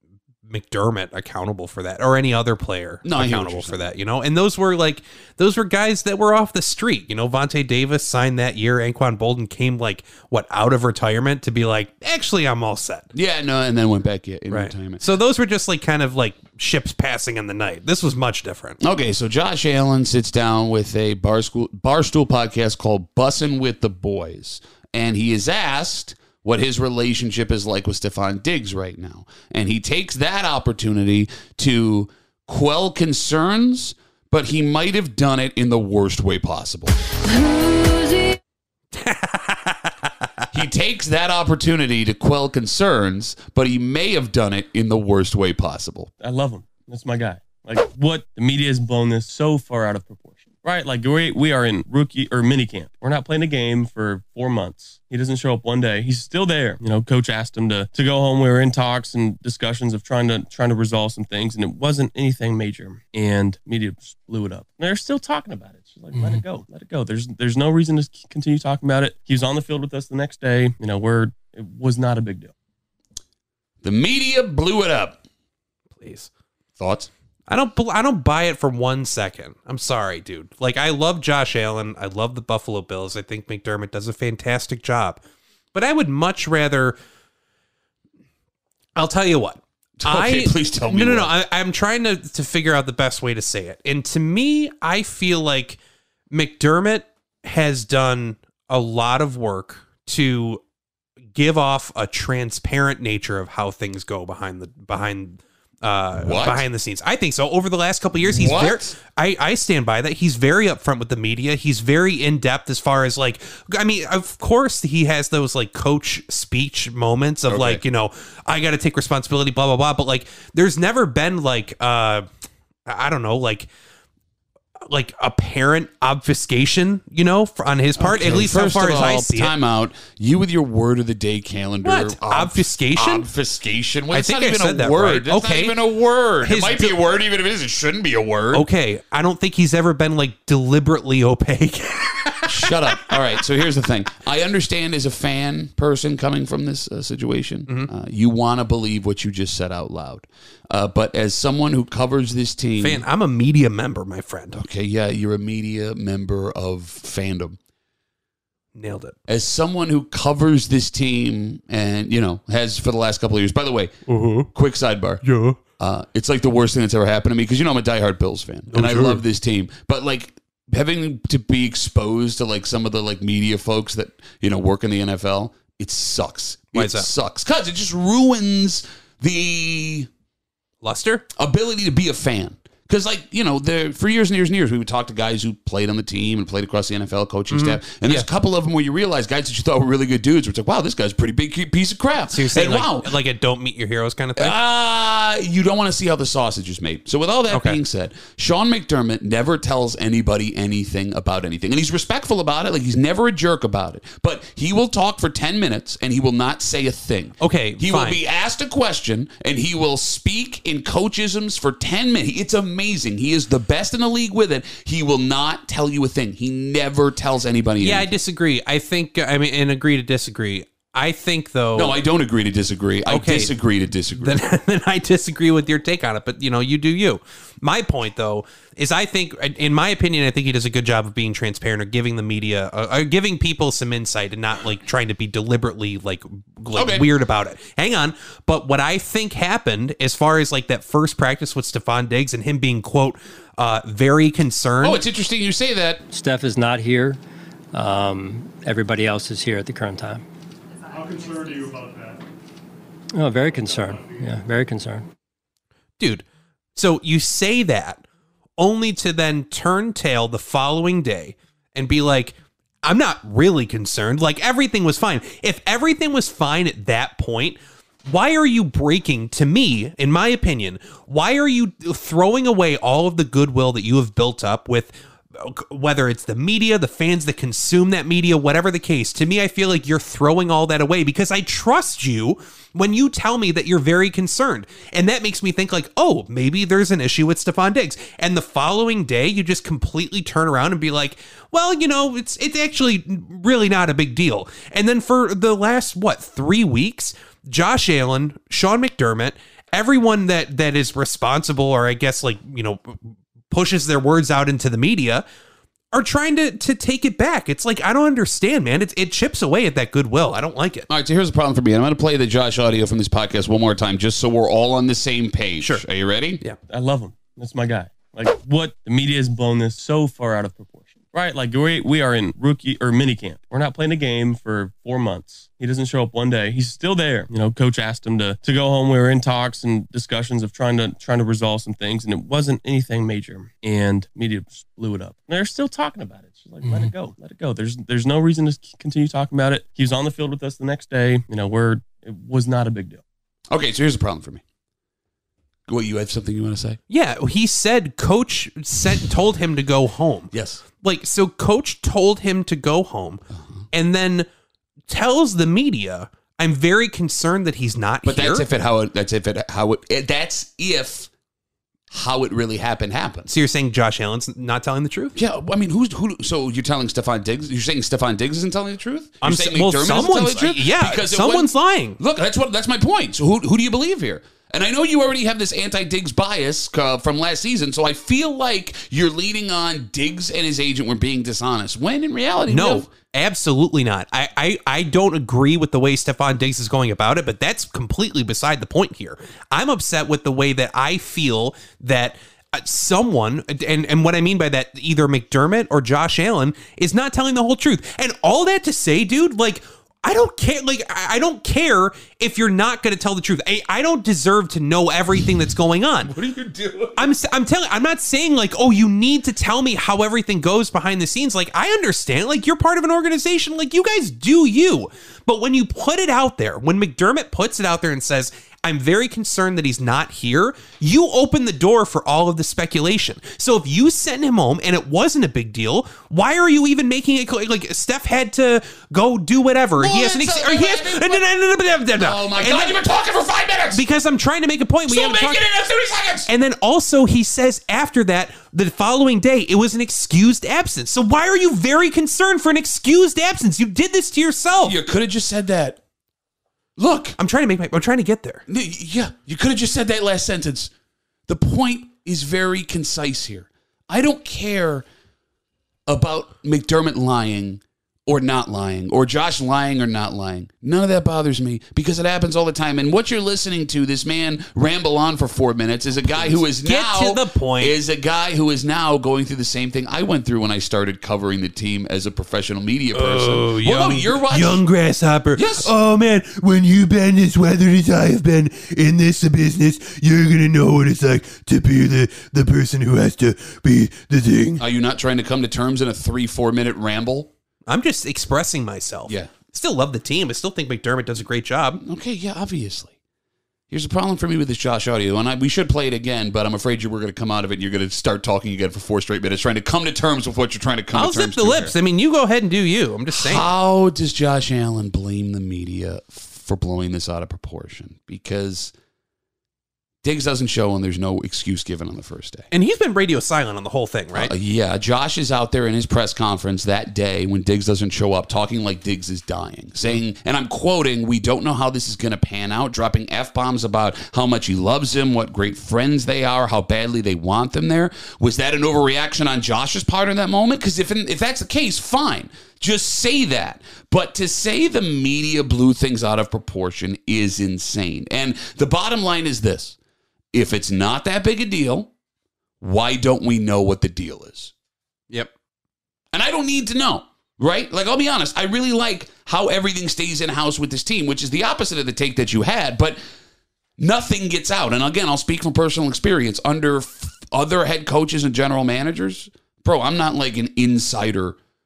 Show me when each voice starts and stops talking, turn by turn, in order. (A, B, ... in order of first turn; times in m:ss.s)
0:00.4-0:13.1 A
0:03.0-0:03.8 B
0:13.1-0:15.0 B
0:14.5-0:18.8 A
0:18.8-0:36.9 B
0:38.9-0:40.5 A
0:40.5-0:46.1 B
0:46.2-1:12.5 C
1:13.8-1:15.2 B
1:15.9-1:16.3 A
1:16.8-1:17.1 B
1:17.5-1:25.2 A
1:25.7-1:27.0 A
1:29.0-1:40.6 A
1:30.0-1:31.3 B
1:41.3-2:02.3 A
1:46.2-1:46.6 B
1:48.2-1:48.9 B
1:57.5-1:57.8 B
2:02.8-2:03.7 A
2:04.8-2:09.5 A
2:08.0-2:18.6 B
2:11.8-2:13.3 A
2:14.1-2:15.8 A
2:16.4-2:17.0 A
2:18.5-2:23.2 A
2:22.5-2:33.0 B
2:32.8-2:34.6 A
2:34.5-2:37.6 B
2:38.7-2:39.2 A
2:39.3-2:43.9 B
2:44.0-2:44.5 A
2:44.5-2:45.2 B
2:45.2-2:45.6 A
2:45.8-3:00.1 B
2:48.7-2:49.2 A
2:56.7-2:57.1 A
3:00.8-3:01.2 A
3:01.3-3:13.1 B
3:07.5-3:08.3 A
3:12.3-3:14.6 A
3:14.4-3:38.2 B
3:17.5-3:17.8 A
3:27.4-3:28.2 A
3:37.8-3:42.0 A
3:41.8-3:44.4 B
3:43.0-3:43.6 A
3:44.1-4:05.0 A
3:56.7-3:57.1 B
4:04.8-4:06.0 B
4:06.1-4:07.2 D
4:07.7-4:10.2 D
4:10.9-4:12.2 E
4:13.1-4:15.0 D
4:13.6-4:14.3 E
4:16.0-4:18.0 A
4:18.6-5:05.2 A
5:05.9-5:10.9 A
5:10.9-5:16.4 B
5:15.6-5:15.8 A
5:16.7-5:43.0 C
5:43.5-5:44.4 B
5:45.7-5:46.8 B
5:46.9-5:54.3 A
5:50.3-5:50.6 B
5:53.3-5:53.6 B
5:54.9-5:58.4 A
5:58.0-6:01.1 B
6:01.9-6:03.3 B
6:03.3-6:05.2 A
6:05.1-6:22.9 B
6:09.2-6:12.0 A
6:22.5-6:46.1 A
6:46.0-6:47.1 B
6:47.0-7:12.8 A
7:09.8-7:11.2 B
7:12.0-7:13.8 B
7:13.7-7:15.4 A
7:14.9-7:16.3 B
7:16.3-7:24.8 A
7:24.6-7:25.8 B
7:26.8-7:27.2 B
7:27.2-7:28.4 A
7:28.5-7:30.7 B
7:31.3-7:34.8 B
7:35.9-7:54.6 B
7:46.0-7:47.7 A
7:52.9-8:04.6 A
7:55.3-7:55.7 B
8:04.6-8:07.3 B
8:07.6-8:11.8 A
8:09.1-8:09.3 B
8:11.8-8:12.9 B
8:13.7-8:21.7 B
8:20.9-8:23.5 A
8:23.1-8:28.7 B
8:30.0-8:32.5 B
8:32.5-8:34.3 A
8:34.1-8:59.8 B
9:00.3-9:01.9 B
9:02.6-9:04.5 B
9:06.1-9:13.0 B
9:13.8-9:21.4 B